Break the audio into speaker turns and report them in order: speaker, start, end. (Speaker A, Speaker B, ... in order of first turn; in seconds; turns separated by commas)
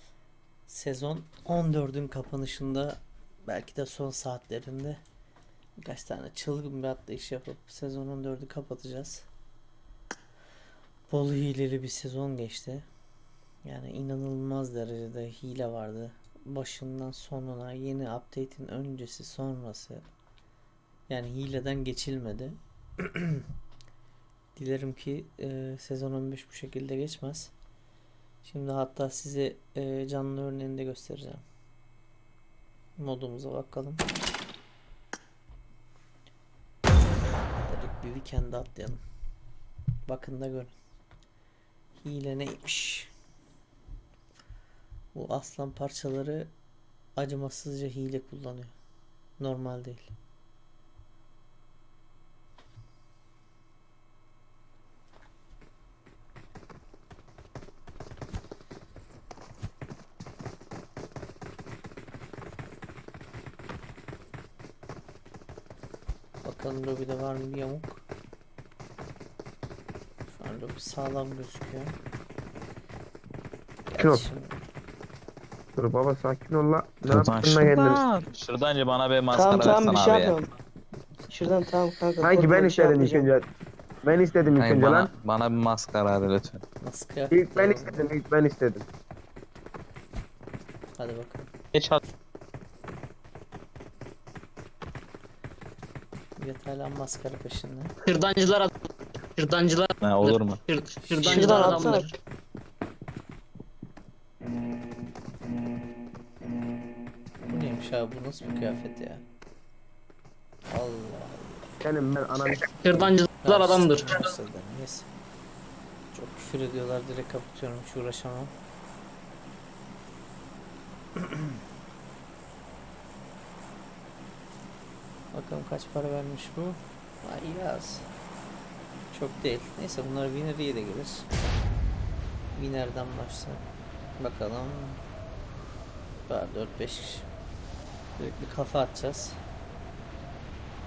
Speaker A: 0.7-5.0, Speaker A: 5.8-9.3, Speaker A: 11.1-12.9, Speaker A: 13.6-20.0, Speaker A: 21.1-23.4, Speaker A: 24.5-27.5, Speaker A: 28.4-31.4, Speaker A: 33.0-34.1, Speaker A: 37.6-39.0, Speaker A: 40.0-40.7, Speaker A: 42.0-43.1, Speaker A: 45.1-46.5, Speaker A: 47.2-48.7, Speaker A: 49.4-50.1, Speaker A: 66.4-68.0, Speaker A: 70.3-72.0, Speaker A: 73.9-74.5, Speaker B: 74.0-74.2, Speaker B: 75.8-78.0, Speaker C: 77.1-80.4, Speaker D: 79.3-80.5, Speaker D: 81.3-83.3, Speaker B: 82.2-83.5, Speaker B: 84.0-85.1, Speaker C: 84.5-86.6, Speaker A: 86.8-88.1, Speaker B: 87.3-88.8, Speaker A: 91.0-91.5, Speaker C: 91.7-92.0, Speaker A: 96.4-97.9, Speaker E: 98.0-98.7, Speaker E: 99.3-102.1, Speaker C: 100.0-100.6, Speaker A: 101.0-102.0, Speaker D: 101.2-102.1, Speaker A: 107.5-109.2, Speaker A: 110.7-111.7, Speaker B: 111.8-113.0, Speaker E: 112.8-114.2, Speaker A: 113.4-115.1, Speaker A: 116.1-118.5, Speaker A: 125.3-128.1, Speaker A: 129.1-131.3, Speaker A: 132.5-133.7, Speaker A: 134.2-135.0, Speaker A: 136.2-137.3, Speaker A: 138.2-139.4